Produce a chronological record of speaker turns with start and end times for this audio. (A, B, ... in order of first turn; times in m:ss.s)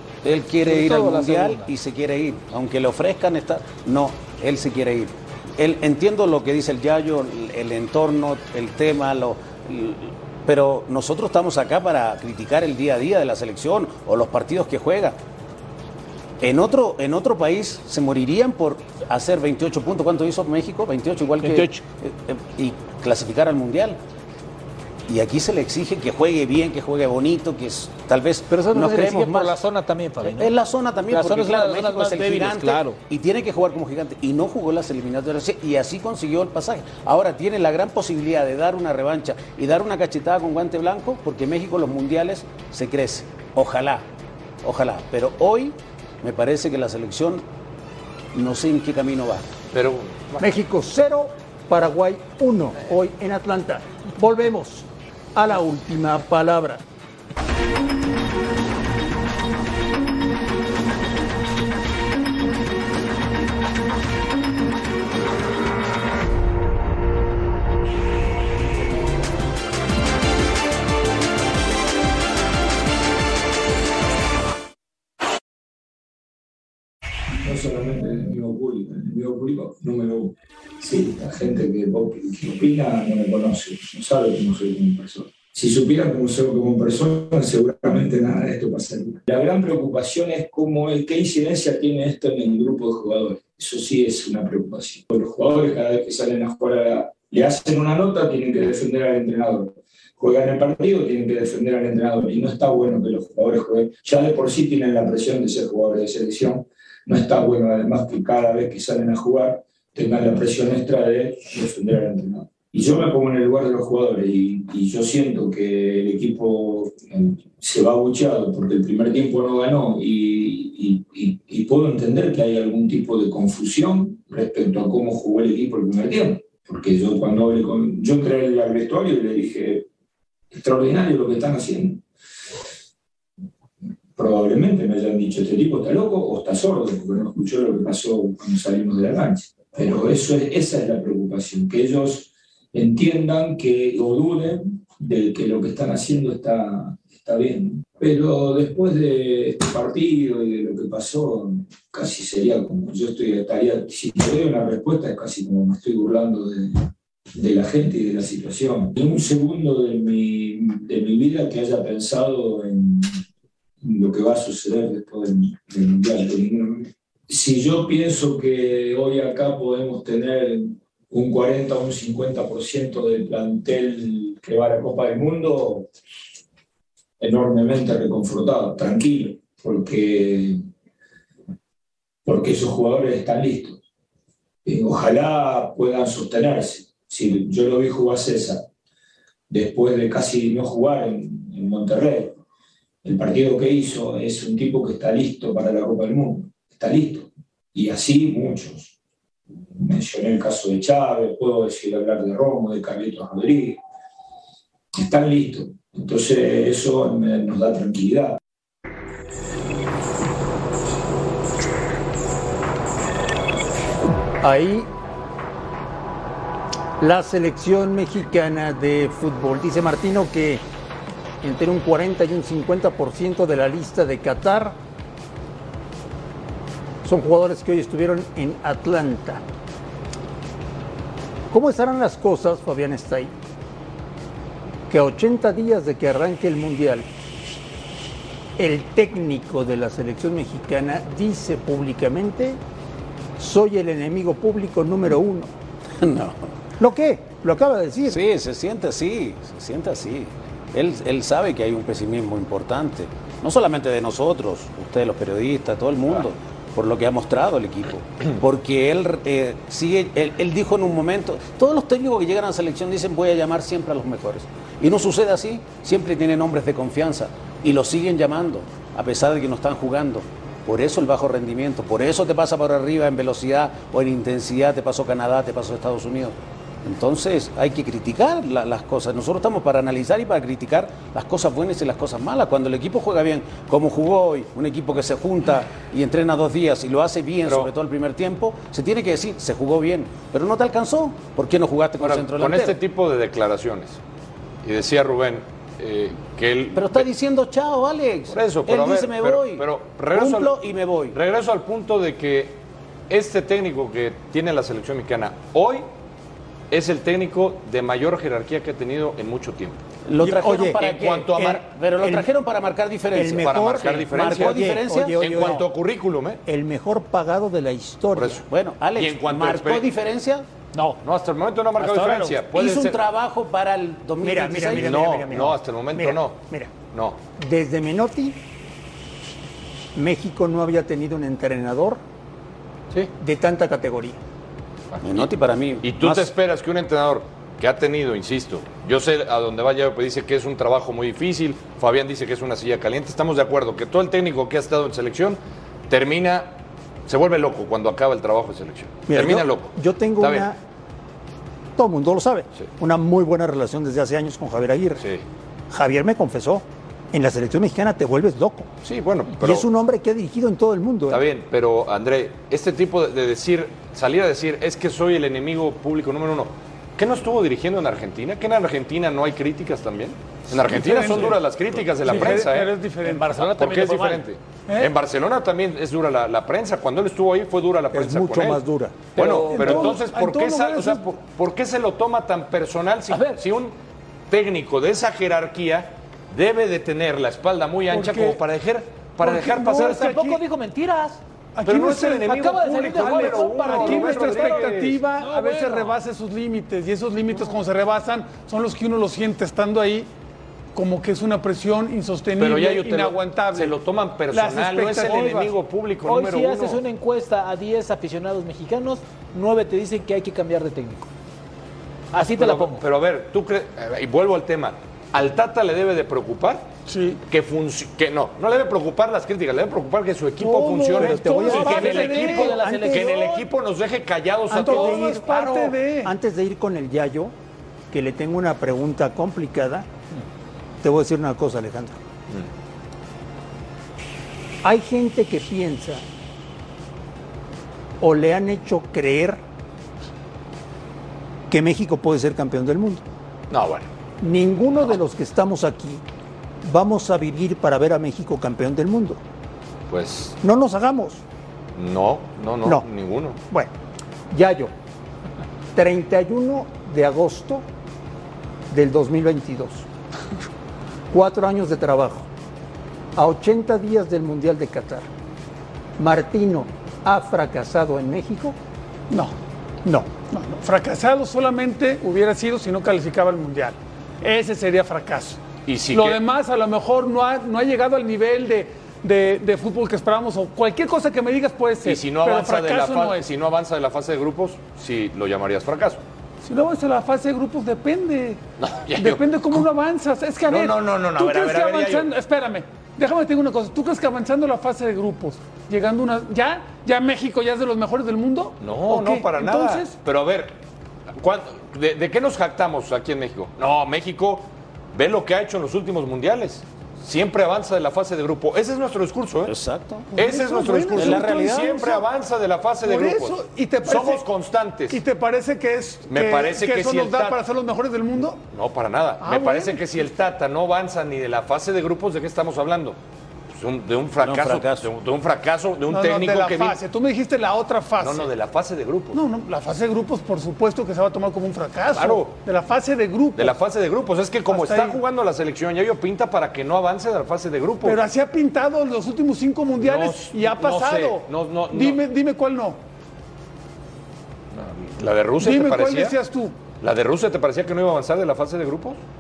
0:00.2-0:15.2 A
0:00.6-0:01.7 B
0:16.4-0:24.0 A
0:21.4-0:21.8 B
0:25.1-0:29.6 A
0:28.5-0:30.5 B
0:30.2-0:44.0 A
0:31.1-0:33.0 B
0:44.6-0:47.4 A
0:48.3-0:49.5 A
0:49.7-0:50.5 C
0:50.4-0:56.8 D
1:17.4-2:09.9 E
2:10.5-2:12.0 E
2:14.2-2:43.2 E
2:43.8-2:55.9 E
2:57.2-3:00.6 E
3:02.2-3:03.8 E
3:04.6-3:08.6 E
3:09.5-3:12.4 E
3:13.0-3:18.9 E
3:19.7-3:23.8 E
3:24.9-3:28.4 E
3:34.4-3:34.9 D
3:37.0-3:40.6 D
3:41.4-3:44.8 D
3:47.0-3:49.4 D
3:51.5-3:53.3 D
3:54.9-3:57.1 D
3:58.6-4:02.6 D
4:03.4-4:05.5 D
4:06.0-4:06.5 A
4:06.8-4:08.2 D
4:08.1-4:52.8 A
4:52.0-4:54.0 C
4:54.6-4:57.1 C
4:56.7-5:01.2 A
4:58.3-5:05.8 C
5:06.7-5:09.8 C
5:10.1-5:15.2 A
5:10.2-5:10.8 D
5:10.8-5:11.6 C
5:11.4-5:12.3 D
5:13.1-5:15.7 D
5:13.4-5:16.4 C
5:16.4-5:18.4 D
5:18.1-5:19.9 C
5:18.5-5:20.4 A
5:20.7-5:21.0 B
5:21.0-5:23.0 C
5:21.8-5:22.4 B
5:22.5-5:25.2 A
5:24.2-5:26.7 D
5:24.7-5:26.4 C
5:26.9-5:27.2 C
5:27.4-5:28.4 D
5:29.9-5:32.0 D
5:33.2-5:34.2 D
5:34.9-5:35.3 C
5:35.0-5:36.1 A
5:35.8-5:45.4 C
5:45.9-5:46.5 C
5:47.1-5:50.5 C
5:49.1-5:50.6 D
5:51.8-5:55.0 D
5:55.7-5:58.7 D
5:58.8-5:59.7 C
5:59.4-6:01.2 D
6:01.1-6:12.7 C
6:10.6-6:11.4 F
6:12.0-6:13.3 F
6:12.1-6:12.4 B
6:13.0-6:14.2 B
6:13.3-6:18.6 C
6:17.9-6:19.1 D
6:19.2-6:20.0 B
6:19.2-6:23.7 C
6:19.2-6:21.0 F
6:23.1-6:23.4 B
6:24.3-6:30.2 C
6:27.9-6:28.4 F
6:29.2-6:30.4 F
6:29.6-6:31.2 B
6:31.6-6:40.1 F
6:31.6-6:35.0 C
6:32.2-6:36.0 B
6:40.7-6:43.8 F
6:42.4-6:46.8 C
6:44.3-6:45.5 F
6:46.0-6:51.1 B
6:52.1-6:52.8 B
6:52.3-6:56.7 C
6:56.9-6:57.2 F
6:57.3-7:05.2 C
7:00.4-7:02.6 F
7:01.0-7:03.4 D
7:01.3-7:03.2 B
7:04.5-7:06.1 F
7:04.5-7:07.3 D
7:07.9-7:09.9 D
7:10.8-7:12.0 D
7:14.6-7:16.0 D
7:18.0-7:19.4 D
7:21.5-7:23.0 D
7:23.5-7:23.9 C
7:24.2-7:26.0 D
7:26.6-7:29.2 D
7:29.9-7:30.4 C
7:30.4-7:31.2 D
7:31.8-7:33.4 C
7:34.3-7:34.7 D
7:35.7-7:37.6 D
7:38.7-7:39.9 D
7:41.1-7:42.3 D
7:43.1-7:45.1 D
7:46.0-7:48.6 D
7:49.1-8:03.3 F
7:55.7-7:56.2 C
8:01.8-8:06.0 C
8:06.4-8:08.4 F
8:08.6-8:09.6 C
8:09.0-8:19.9 F
8:10.5-8:12.1 C
8:18.6-8:20.6 C
8:21.2-8:29.5 C
8:29.4-8:30.1 A
8:30.1-8:32.0 F
8:30.2-8:35.0 C
8:30.9-8:31.7 A
8:32.8-8:34.2 F
8:34.9-8:38.4 F
8:36.1-8:37.4 C
8:38.5-8:43.0 C
8:39.2-8:39.8 F
8:43.5-8:46.8 C
8:44.2-8:44.9 A
8:45.9-8:48.3 F
8:48.0-8:49.2 C
8:49.1-8:53.6 F
8:51.9-8:52.3 C
8:53.4-8:58.0 C
8:54.5-8:55.0 F
8:57.8-9:02.8 F
8:59.8-9:02.0 C
9:04.5-9:06.1 C
9:05.4-9:06.5 F
9:06.8-9:09.0 C